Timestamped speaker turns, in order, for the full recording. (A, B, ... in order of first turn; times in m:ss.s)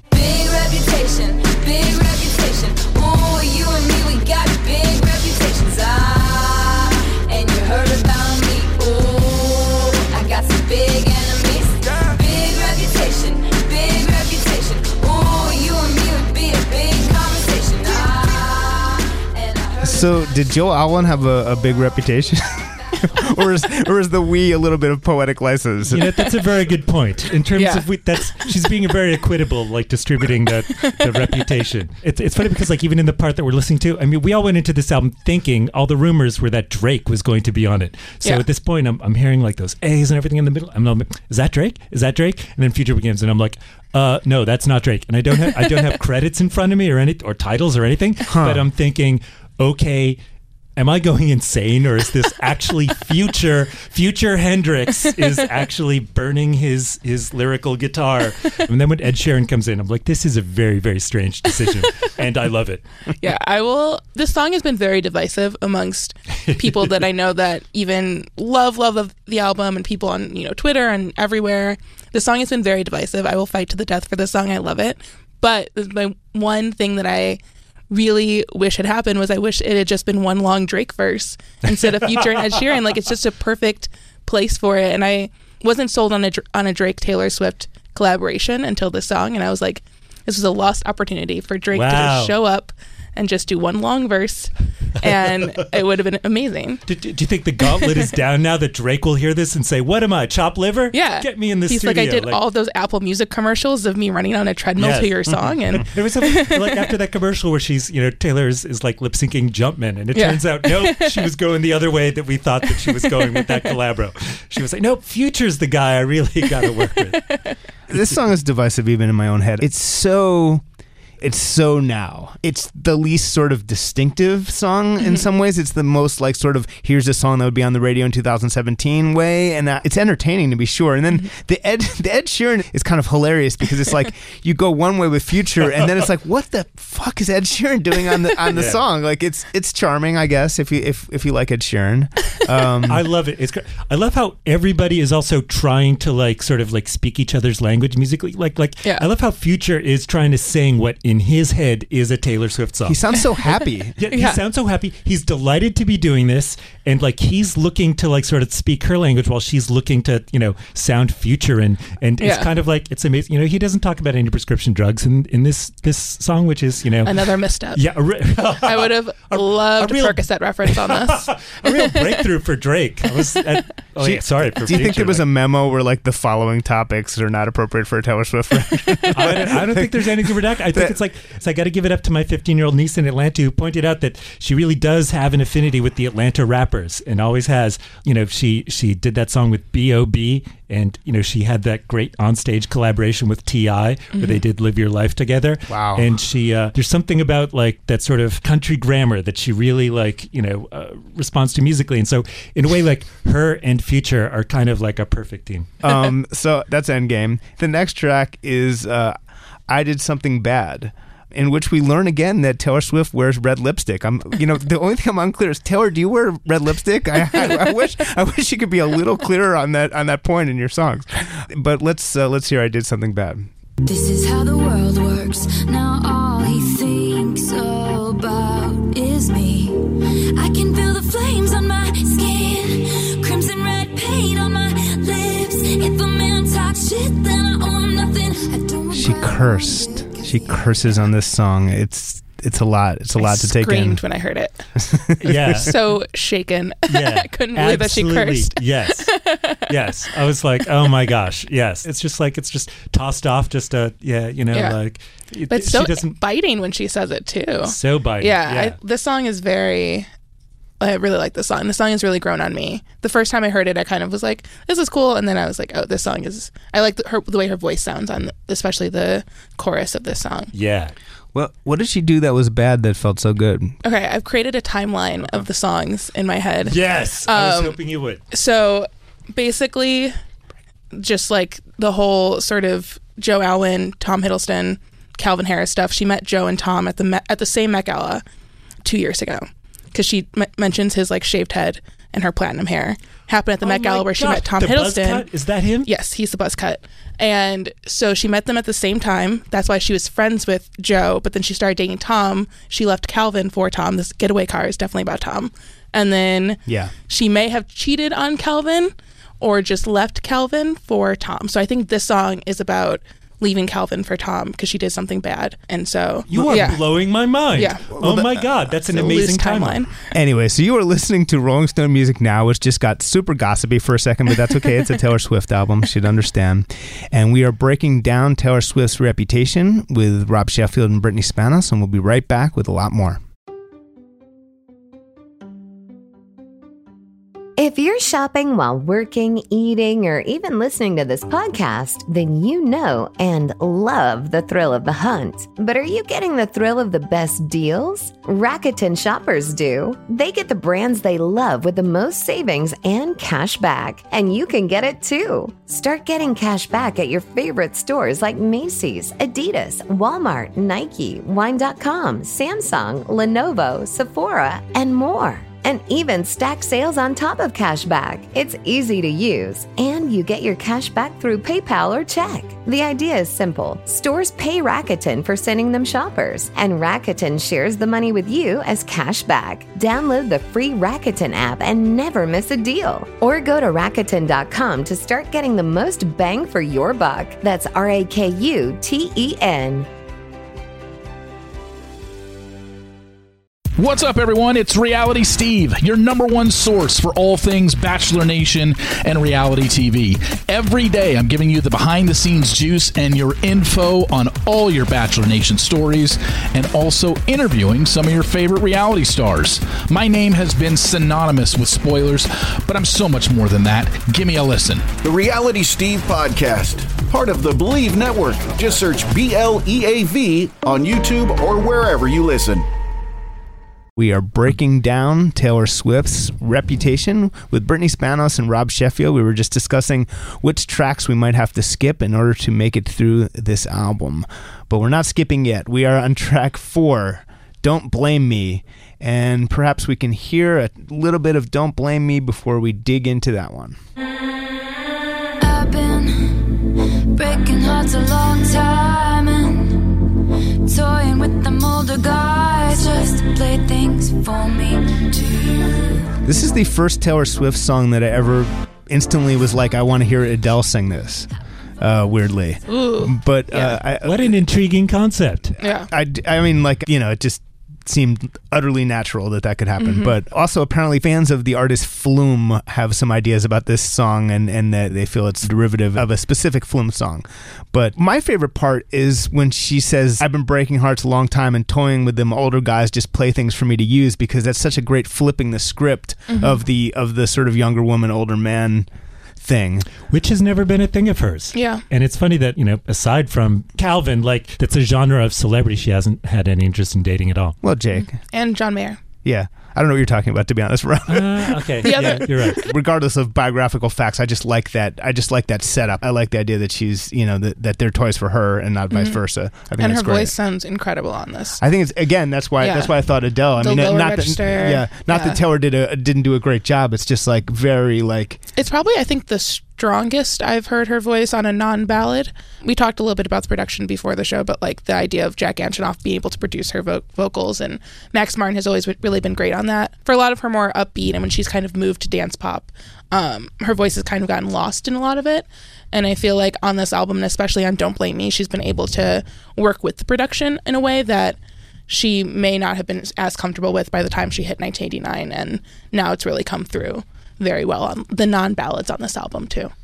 0:00.1-0:20.1 A
0:19.8-0:26.1 B
0:25.8-0:50.2 C
0:27.5-0:27.8 D
0:48.3-0:48.6 B
0:50.8-1:03.1 C
1:03.2-1:36.8 D
1:06.4-1:06.9 C
1:31.7-1:32.4 C
1:35.0-1:35.6 C
1:36.8-1:42.4 C
1:40.9-1:46.7 D
1:44.8-1:57.4 C
1:50.1-1:51.2 D
1:53.0-1:53.6 D
1:57.9-2:00.6 B
2:01.2-2:23.0 B
2:18.5-2:18.8 C
2:22.8-2:33.0 C
2:32.8-2:34.0 B
2:34.0-2:55.2 C
2:34.1-2:34.4 D
2:42.2-2:42.5 D
2:47.0-2:47.8 D
2:48.6-2:51.8 D
2:54.0-3:01.0 B
2:59.1-3:25.7 C
3:14.1-3:14.4 D
3:15.7-3:16.1 B
3:25.8-3:29.2 B
3:29.7-3:43.5 B
3:43.8-4:00.8 A
3:58.9-4:04.0 B
4:03.2-4:04.7 D
4:04.8-4:05.7 B
4:05.2-4:05.8 C
4:05.6-4:09.6 D
4:06.9-4:09.1 C
4:09.7-4:16.2 C
4:14.5-4:14.8 D
4:15.5-4:20.1 D
4:17.6-4:18.8 C
4:20.8-4:30.5 D
4:30.5-4:30.9 C
4:31.3-4:33.8 B
4:33.8-4:37.8 D
4:36.6-4:38.2 C
4:38.3-4:40.2 D
4:40.9-4:48.2 D
4:48.8-4:55.3 D
4:53.6-4:55.9 C
4:55.8-5:16.8 D
5:06.6-5:06.9 B
5:16.3-5:19.8 C
5:16.3-5:16.7 B
5:17.5-5:17.8 D
5:18.0-5:18.4 B
5:18.9-5:19.9 D
5:20.1-5:33.2 B
5:37.6-6:29.9 E
6:33.8-6:54.9 F
6:55.0-7:02.6 G
7:04.0-7:23.8 B
7:25.4-7:30.1 A
7:30.6-7:36.1 A
7:36.2-7:44.4 B
7:42.7-7:43.7 D
7:43.9-7:45.5 C
7:45.6-7:45.9 D
7:45.6-8:08.9 B
7:49.8-7:50.1 D
8:06.3-8:06.6 D
8:09.4-8:09.9 B
8:10.1-8:17.6 C
8:11.5-8:11.8 D
8:17.6-8:18.2 B
8:18.2-8:19.0 D
8:19.2-8:30.3 B
8:21.1-8:22.7 C
8:21.8-8:22.6 D
8:28.9-8:29.2 D
8:29.8-8:31.6 D
8:31.6-8:38.4 B
8:32.6-8:32.9 D
8:33.6-8:35.4 D
8:38.5-9:09.7 D